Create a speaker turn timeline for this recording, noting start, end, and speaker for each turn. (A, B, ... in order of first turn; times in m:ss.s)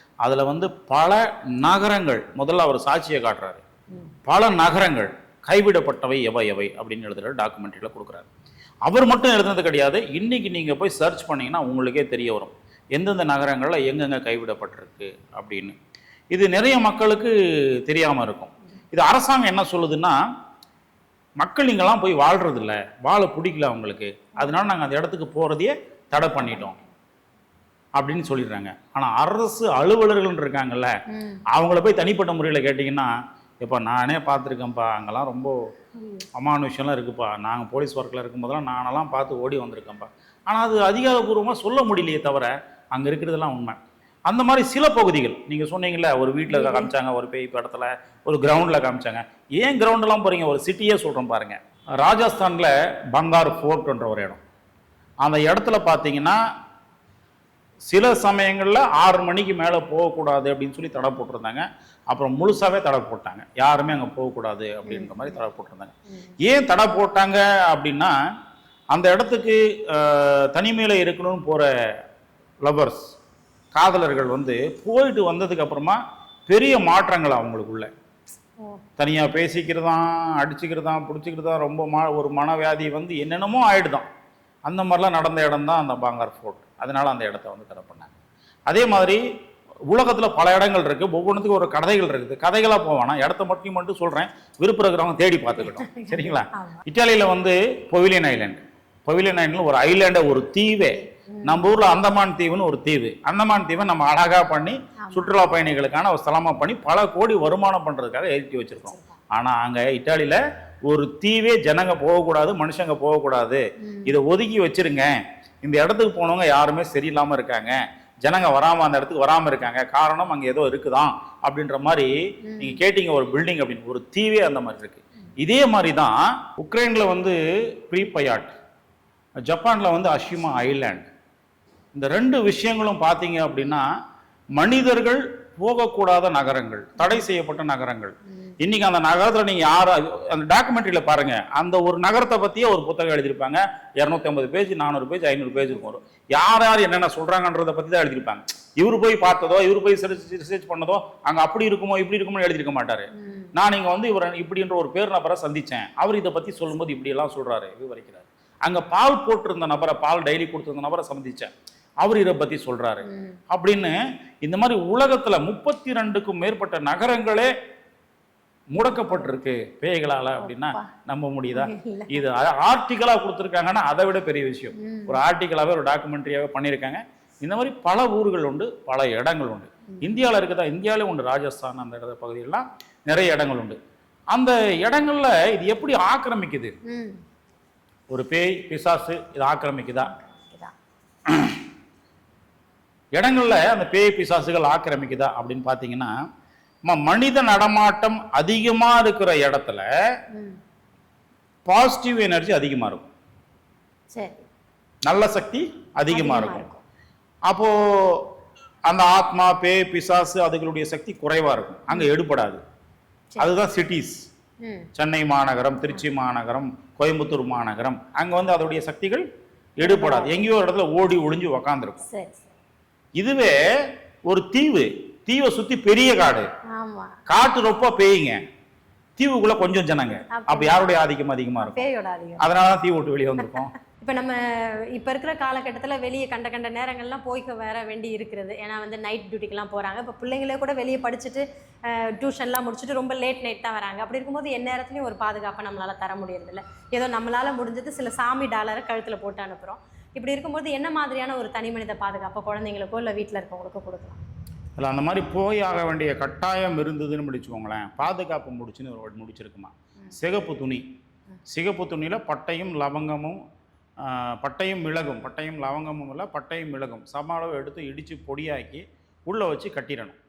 0:00.2-0:03.6 A
0:04.3-0:08.3 A
0:08.9-0:15.8 A
0:16.3-0:20.2 A
0:21.4-0:26.8 A
0:26.2-0:26.8 B
0:28.0-0:30.9 A
0:31.1-0:31.4 B
0:31.5-0:33.1 A
0:33.6-0:35.5 A
0:36.0-0:36.2 B
0:36.4-0:54.4 A
0:46.5-0:46.9 B
0:55.2-0:56.4 A
0:57.9-1:08.2 A
1:04.8-1:05.3 B
1:08.9-1:11.7 A
1:12.6-1:13.0 A
1:13.7-1:17.9 A
1:18.6-1:18.8 B
1:19.0-1:24.1 A
1:24.7-1:28.1 A
1:28.7-1:29.2 A
1:29.9-1:55.1 A
1:35.6-1:36.8 B
1:41.2-1:41.7 B
1:45.0-1:45.4 B
1:53.8-1:54.2 B
1:55.6-2:08.6 A
2:02.5-2:02.8 B
2:09.5-2:11.1 A
2:12.0-2:13.9 A
2:14.6-2:41.5 A
2:33.2-2:33.5 B
2:42.0-2:47.5 A
2:43.0-2:43.4 B
2:48.8-3:03.8 A
2:50.4-2:50.9 B
2:51.5-2:52.2 B
2:54.8-2:55.2 B
2:59.9-3:00.2 B
3:04.3-3:06.7 A
3:06.9-3:07.2 B
3:08.1-3:10.1 A
3:10.1-3:10.7 B
3:11.3-3:11.6 A
3:13.2-3:16.1 A
3:16.9-3:19.9 A
3:20.3-3:20.6 B
3:21.6-3:23.1 A
3:24.1-3:24.5 B
3:25.1-3:26.6 A
3:26.1-3:26.8 B
3:27.5-3:28.3 A
3:28.9-3:32.6 A
3:33.4-3:34.2 A
3:34.6-3:34.9 B
3:35.0-3:39.3 A
3:39.8-3:42.0 A
3:39.8-3:40.4 B
3:42.0-3:42.5 B
3:43.2-3:43.6 A
3:44.3-3:46.5 A
3:46.7-3:47.2 B
3:47.3-3:48.4 A
3:49.2-3:51.8 A
3:50.3-3:50.9 B
3:51.6-3:52.5 B
3:52.4-3:53.7 A
3:53.4-4:14.2 B
4:14.8-4:20.8 A
4:21.5-4:23.4 A
4:24.0-4:30.2 A